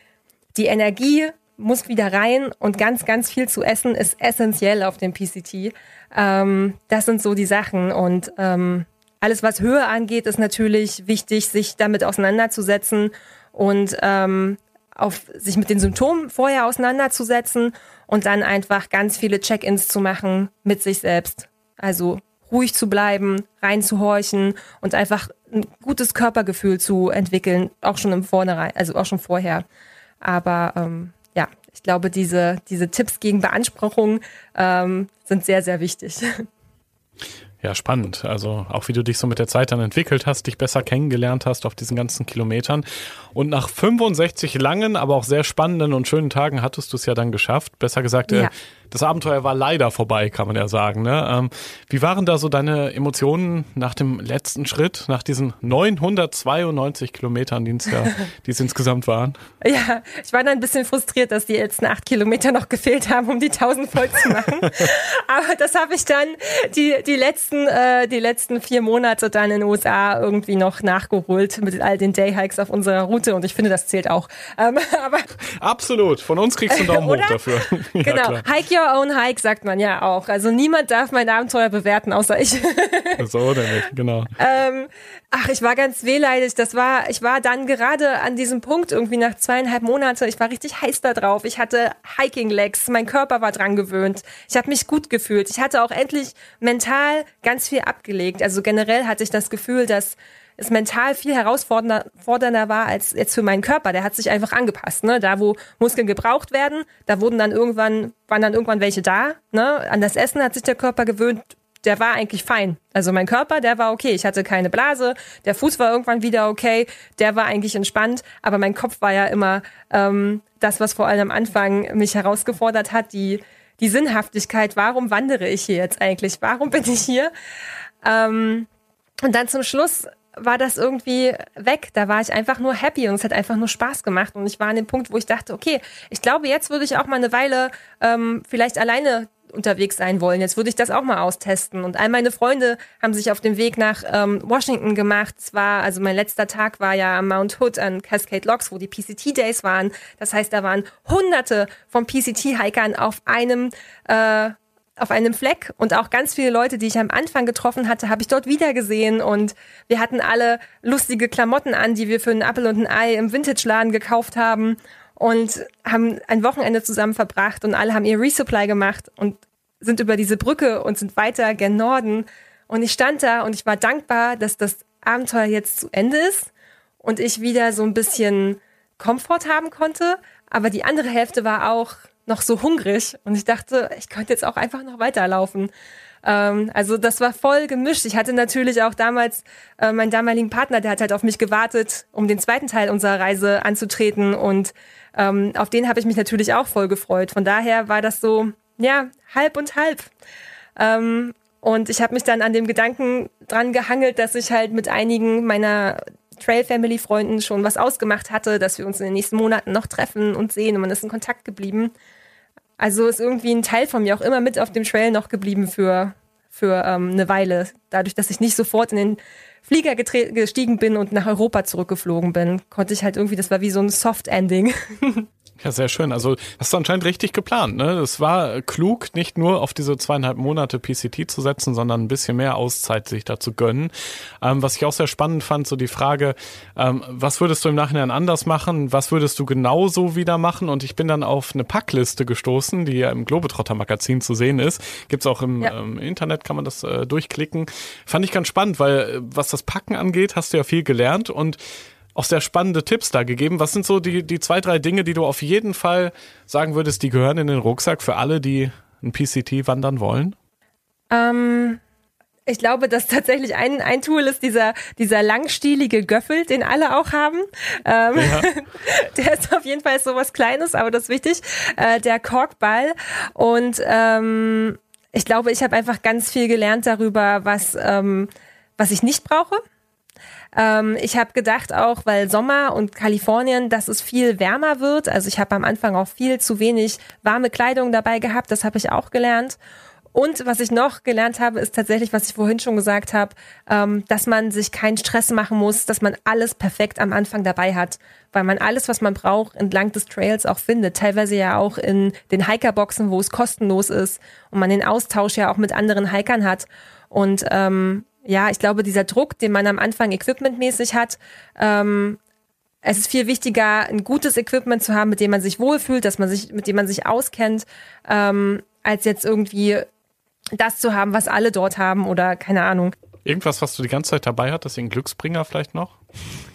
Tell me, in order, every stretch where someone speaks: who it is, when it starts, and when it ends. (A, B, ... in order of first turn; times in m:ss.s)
0:00.5-0:29.6 A
0:30.2-0:36.4 A
0:37.6-0:59.4 B
0:59.6-1:15.3 A
1:15.6-1:18.4 B
1:16.7-1:23.3 A
1:23.2-1:24.3 B
1:24.4-2:07.3 A
2:08.0-2:08.7 A
2:09.2-2:56.5 A
2:57.0-3:05.7 A
3:06.2-3:20.1 A
3:20.8-3:31.9 A
3:32.8-3:45.3 A
3:45.6-4:11.6 B
4:12.1-4:20.4 B
4:21.1-4:21.8 A
4:22.4-4:39.6 A
4:28.2-4:28.5 B
4:40.5-4:49.6 A
4:50.1-5:12.2 A
5:12.8-5:19.9 A
5:20.5-5:22.9 A
5:23.2-5:26.0 B